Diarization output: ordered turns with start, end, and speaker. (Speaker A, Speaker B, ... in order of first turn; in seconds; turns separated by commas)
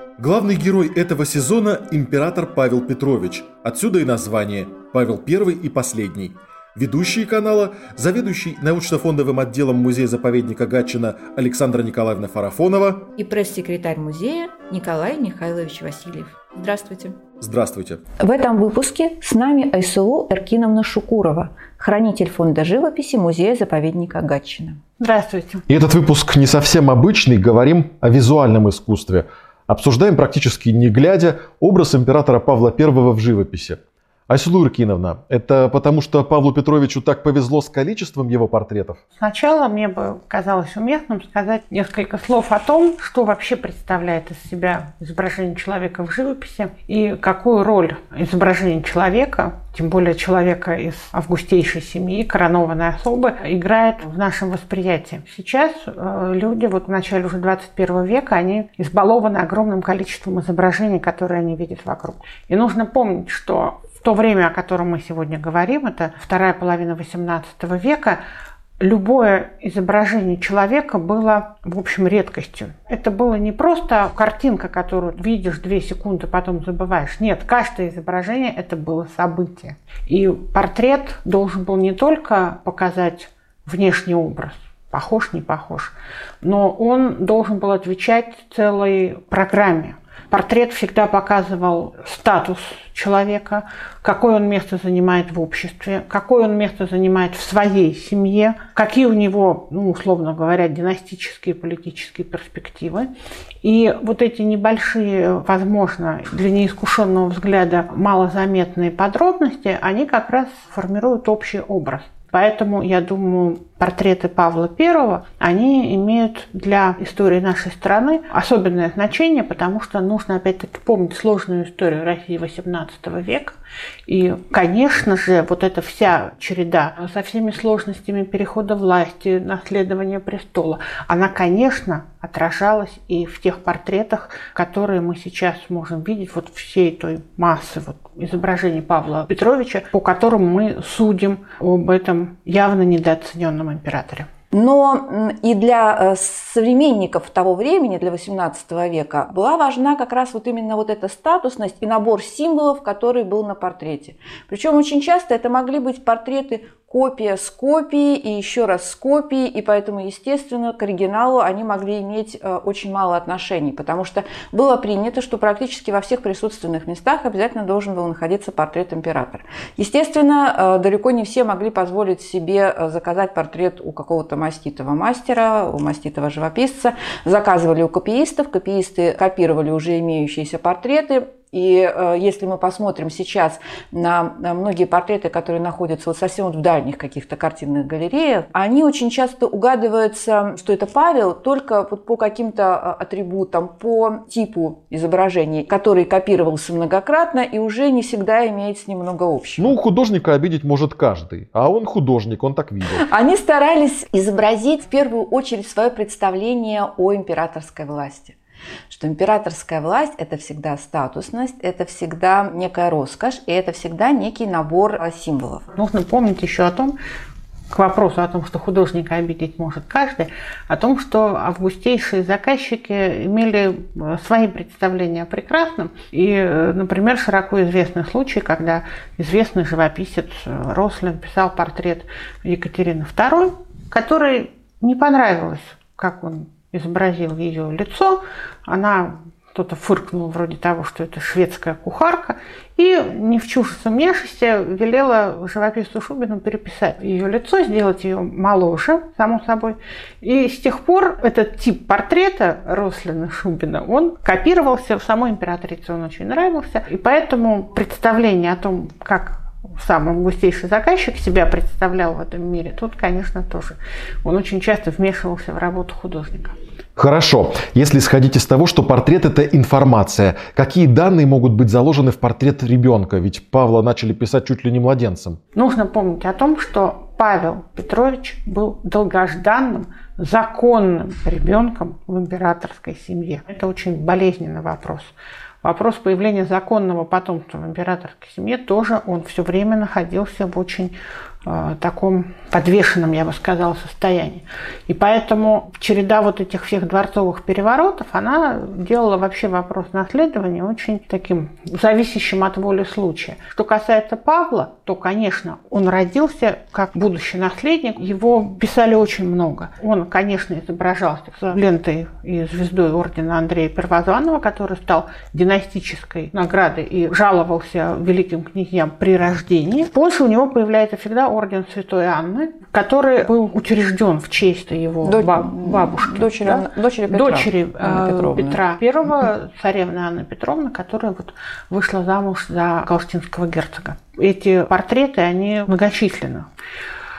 Speaker A: 0.2-13.1, Speaker B: 13.1-17.2, Speaker A: 17.4-18.0, Speaker B: 18.2-24.8, Speaker C: 25.0-25.6, Speaker A: 25.7-39.0, Speaker C: 39.2-68.2, Speaker C: 68.8-103.1, Speaker C: 103.6-123.5, Speaker C: 124.1-144.3, Speaker B: 144.5-199.7, Speaker A: 199.6-203.1, Speaker B: 202.9-208.3, Speaker B: 208.9-215.7, Speaker C: 215.7-216.9, Speaker C: 217.7-266.5, Speaker A: 267.0-275.4, Speaker C: 275.5-336.5, Speaker B: 325.0-328.6